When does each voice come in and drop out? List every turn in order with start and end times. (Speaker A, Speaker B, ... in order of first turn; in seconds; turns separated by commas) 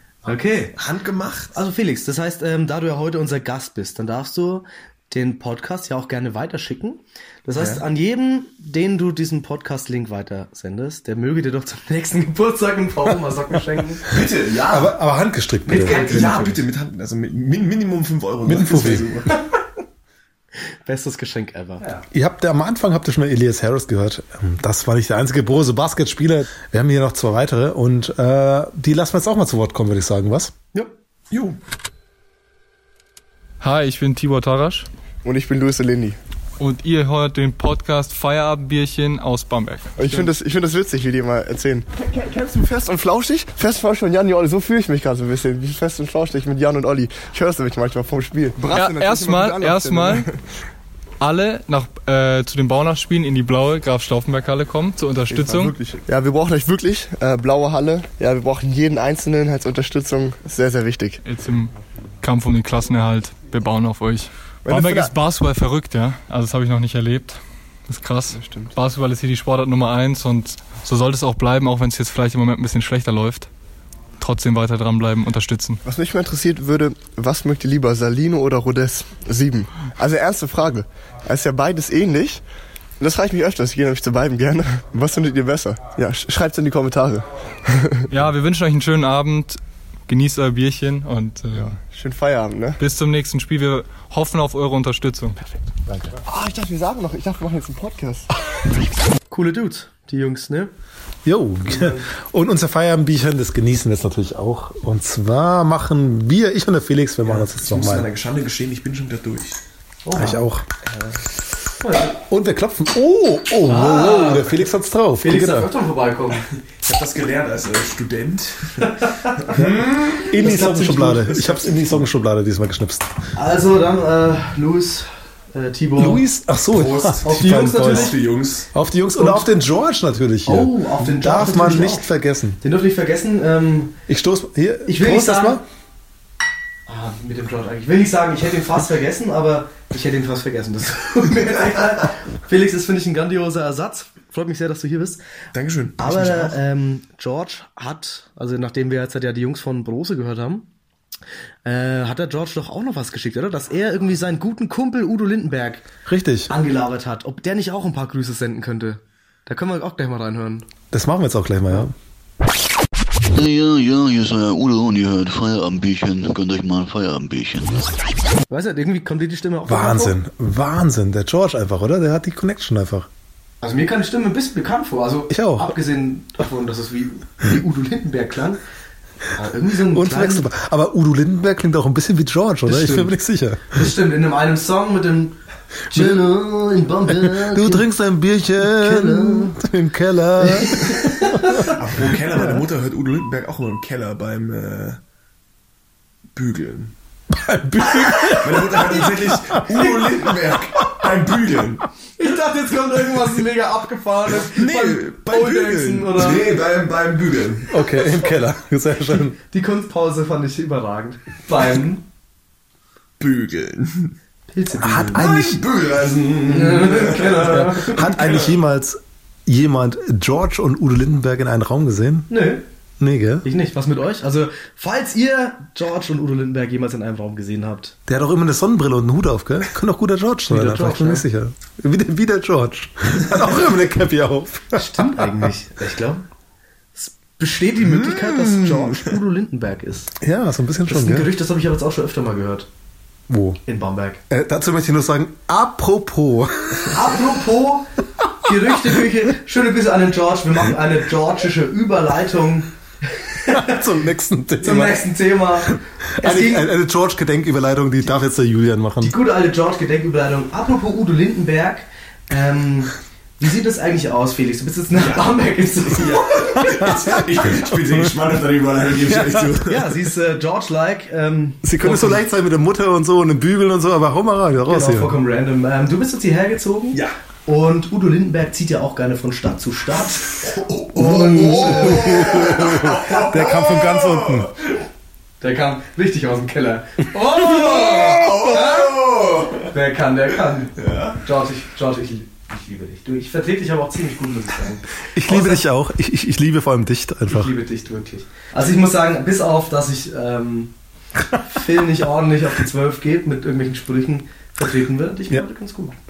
Speaker A: 0.2-0.8, Speaker B: 0.8-1.6, Speaker A: 1.5-14.1, Speaker B: 7.6-7.8, Speaker B: 14.1-14.9, Speaker C: 14.7-16.4, Speaker A: 15.7-16.6, Speaker B: 15.8-19.4, Speaker C: 18.4-19.1, Speaker A: 20.6-22.0, Speaker C: 22.1-30.5, Speaker B: 31.3-31.6, Speaker D: 33.6-34.9, Speaker E: 35.2-36.2, Speaker D: 36.6-40.2, Speaker E: 40.0-50.4, Speaker D: 48.7-50.3, Speaker D: 51.2-55.8, Speaker E: 55.3-61.2, Speaker D: 61.2-73.5, Speaker E: 64.7-65.1, Speaker E: 68.4-68.7, Speaker D: 74.2-75.8, Speaker E: 75.8-82.4, Speaker E: 83.0-88.1, Speaker D: 88.1-91.8, Speaker E: 91.5-92.8, Speaker D: 92.8-95.4, Speaker E: 96.2-98.3, Speaker A: 99.3-100.7, Speaker C: 101.2-108.1, Speaker B: 107.2-109.6, Speaker A: 110.0-110.4, Speaker C: 110.2-110.7, Speaker A: 111.8-112.1, Speaker C: 112.1-115.7, Speaker A: 113.7-114.6, Speaker A: 115.2-116.5, Speaker B: 116.5-122.0, Speaker A: 118.8-119.6, Speaker C: 119.6-123.1, Speaker A: 120.4-121.3, Speaker A: 123.3-126.2, Speaker C: 126.0-128.2, Speaker B: 126.7-128.7, Speaker A: 127.2-128.2, Speaker C: 128.7-132.6, Speaker A: 129.2-129.5, Speaker A: 130.5-132.1, Speaker A: 132.6-133.9, Speaker C: 134.1-135.6, Speaker A: 134.9-135.6, Speaker A: 136.9-145.2, Speaker B: 145.5-146.6, Speaker A: 146.0-150.7, Speaker A: 151.7-155.9, Speaker C: 156.1-156.5, Speaker A: 156.5-160.7, Speaker C: 160.9-161.9, Speaker F: 163.3-167.9, Speaker A: 168.5-170.2, Speaker C: 169.7-173.1, Speaker A: 173.6-178.6, Speaker C: 175.3-175.8, Speaker A: 179.3-180.5, Speaker C: 179.9-183.9, Speaker A: 182.7-183.2, Speaker A: 183.7-185.4, Speaker A: 185.9-187.9, Speaker C: 185.9-186.3, Speaker C: 187.1-191.7, Speaker A: 188.6-189.6, Speaker A: 190.4-191.8, Speaker B: 191.7-195.0, Speaker A: 192.3-192.6, Speaker B: 196.3-196.9, Speaker C: 197.3-200.1, Speaker B: 197.9-201.8, Speaker A: 202.2-206.5, Speaker B: 204.3-207.8, Speaker C: 207.7-209.4, Speaker A: 209.5-212.0, Speaker B: 213.2-214.2, Speaker A: 214.5-215.2, Speaker C: 214.8-215.6, Speaker B: 215.1-218.6, Speaker A: 216.5-218.1, Speaker C: 217.5-222.3, Speaker A: 222.3-222.6, Speaker C: 223.0-223.5, Speaker A: 223.4-227.9, Speaker C: 228.1-235.5, Speaker A: 230.5-231.3, Speaker A: 234.8-236.3, Speaker A: 237.0-240.1, Speaker B: 237.9-239.1, Speaker C: 240.2-241.3, Speaker A: 240.9-242.7, Speaker C: 243.3-243.6, Speaker A: 243.7-244.2, Speaker C: 244.3-247.2, Speaker A: 246.8-253.8, Speaker C: 253.5-255.1, Speaker A: 254.6-256.7, Speaker C: 255.6-259.1, Speaker A: 259.0-266.9, Speaker B: 264.9-269.9, Speaker C: 269.1-269.6, Speaker A: 269.6-272.3, Speaker C: 271.6-275.2, Speaker A: 274.7-280.4, Speaker B: 280.4-284.5, Speaker A: 281.0-282.4, Speaker C: 281.0-284.5, Speaker A: 285.4-289.0, Speaker C: 287.4-288.1, Speaker B: 287.5-289.7, Speaker A: 289.7-295.6, Speaker B: 290.8-291.2, Speaker C: 295.1-297.5, Speaker A: 297.3-300.7, Speaker A: 301.4-306.0